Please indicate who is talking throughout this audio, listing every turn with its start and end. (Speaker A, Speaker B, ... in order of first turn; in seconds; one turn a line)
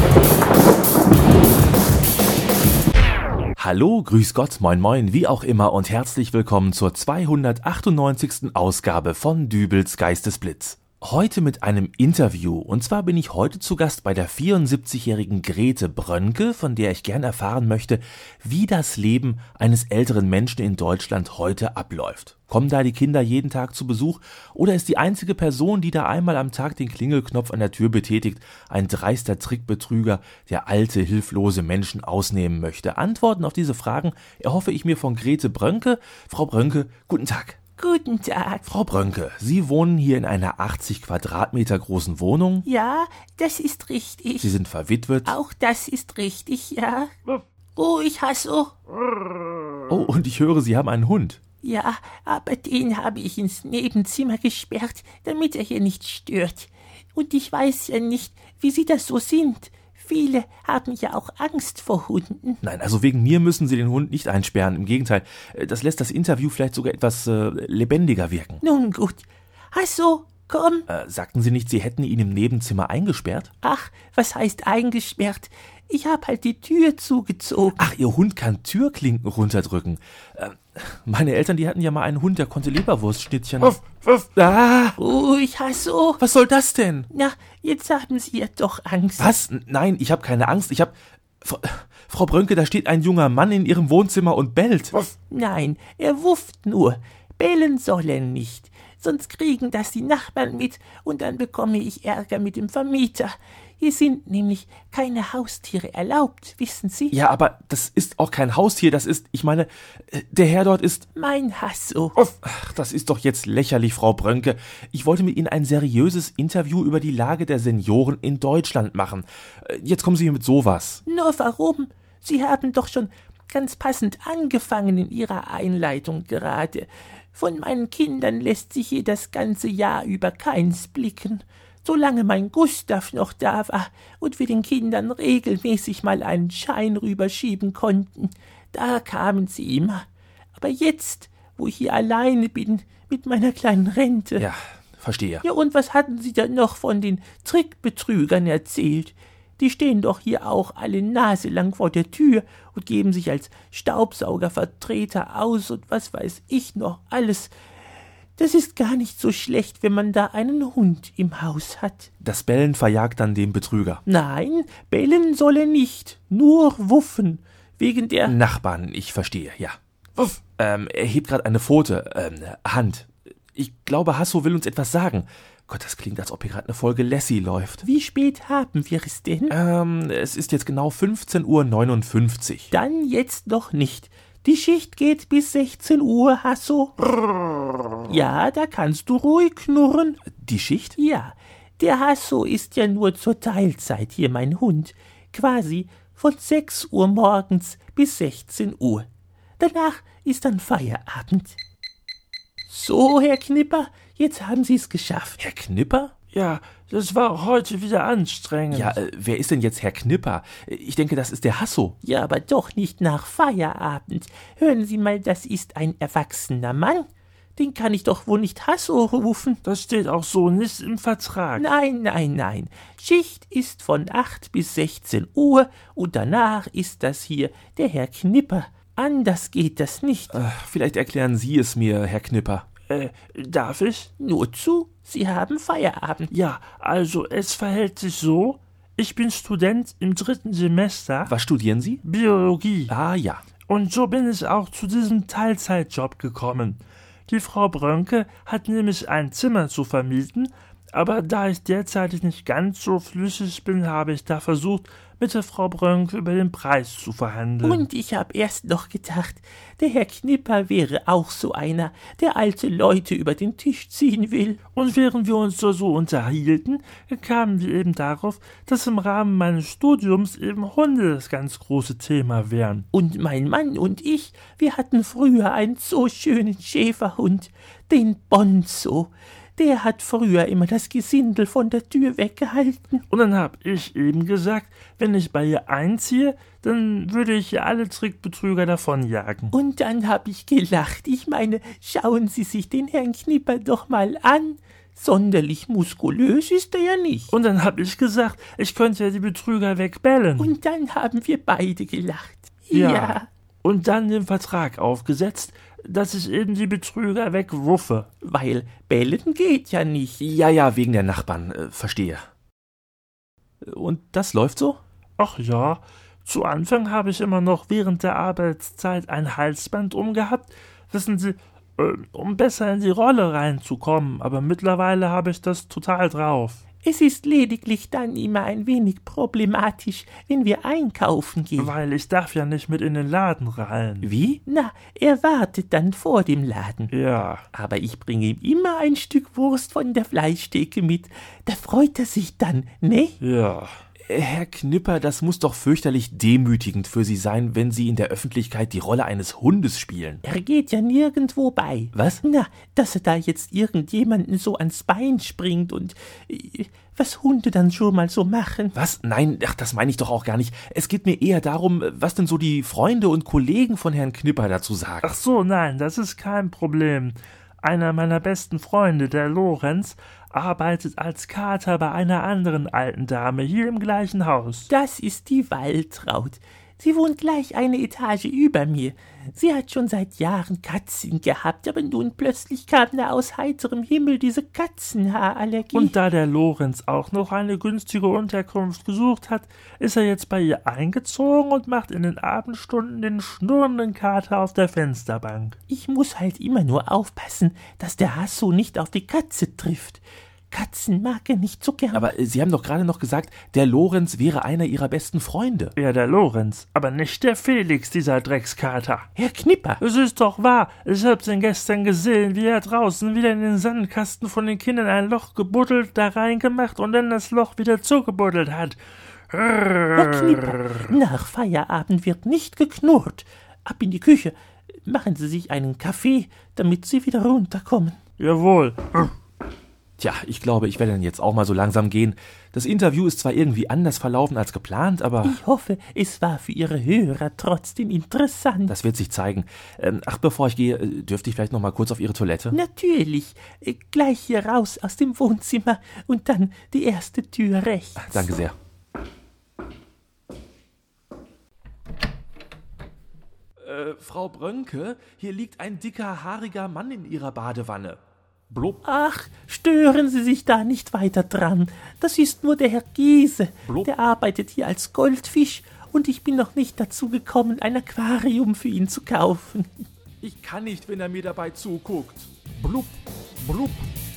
Speaker A: 3.6-37.6
Speaker B: 37.8-38.7
Speaker A: 38.7-42.7
Speaker B: 42.6-44.5
Speaker A: 44.4-45.4
Speaker B: 45.2-47.1
Speaker B: 47.8-48.8
Speaker A: 49.9-51.4
Speaker B: 51.6-62.6
Speaker A: 62.6-68.6
Speaker B: 68.6-70.9
Speaker A: 70.9-73.5
Speaker B: 73.6-77.9
Speaker A: 77.8-85.0
Speaker B: 85.0-86.2
Speaker A: 86.2-87.1
Speaker B: 87.1-89.3
Speaker A: 89.2-95.0
Speaker B: 95.3-107.2
Speaker A: 107.1-111.1
Speaker B: 111.2-112.2
Speaker A: 112.2-121.0
Speaker B: 121.1-144.5
Speaker A: 144.4-145.4
Speaker B: 145.4-157.5
Speaker B: 158.4-162.1
Speaker A: 162.2-164.0
Speaker B: 164.1-168.4
Speaker A: 168.3-177.9
Speaker B: 177.8-179.6
Speaker A: 179.5-182.7
Speaker B: 182.7-187.0
Speaker B: 188.0-190.2
Speaker A: 190.4-191.0
Speaker B: 191.0-199.1
Speaker B: 199.6-201.6
Speaker B: 202.7-205.4
Speaker A: 205.4-206.1
Speaker C: 206.3-209.0
Speaker A: 208.7-212.0
Speaker B: 212.0-219.6
Speaker C: 219.7-221.7
Speaker B: 221.6-230.4
Speaker A: 230.3-232.7
Speaker C: 232.9-234.1
Speaker B: 234.2-236.3
Speaker C: 236.3-241.3
Speaker A: 241.3-242.0
Speaker C: 242.0-242.9
Speaker A: 242.9-243.5
Speaker C: 243.7-257.9
Speaker B: 257.6-264.6
Speaker C: 264.8-272.9
Speaker B: 272.9-283.0
Speaker C: 283.1-289.5
Speaker B: 289.5-297.3
Speaker C: 297.3-300.6
Speaker B: 300.4-303.3
Speaker C: 302.7-308.1
Speaker B: 308.2-310.3
Speaker A: 310.2-312.3
Speaker A: 313.6-314.8
Speaker C: 315.2-326.6
Speaker B: 326.8-331.8
Speaker C: 331.6-334.1
Speaker A: 334.0-334.4
Speaker B: 334.2-336.9
Speaker C: 336.9-337.4
Speaker B: 337.5-343.2
Speaker C: 343.2-343.8
Speaker A: 344.1-350.2
Speaker B: 350.2-358.8
Speaker A: 351.9-352.2
Speaker A: 358.8-365.1
Speaker C: 365.0-374.7
Speaker B: 374.7-386.0
Speaker C: 385.7-395.6
Speaker B: 395.7-402.1
Speaker A: 401.9-405.7
Speaker C: 405.8-409.1
Speaker B: 409.2-409.8
Speaker C: 409.8-418.8
Speaker C: 419.3-420.9
Speaker B: 419.9-428.0
Speaker C: 428.2-429.1
Speaker A: 430.0-435.4
Speaker B: 435.2-438.8
Speaker A: 438.7-442.6
Speaker B: 442.5-448.3
Speaker A: 448.0-448.6
Speaker A: 453.6-458.0
Speaker A: 458.5-458.8
Speaker B: 458.8-469.8
Speaker A: 463.6-463.9
Speaker A: 470.2-473.9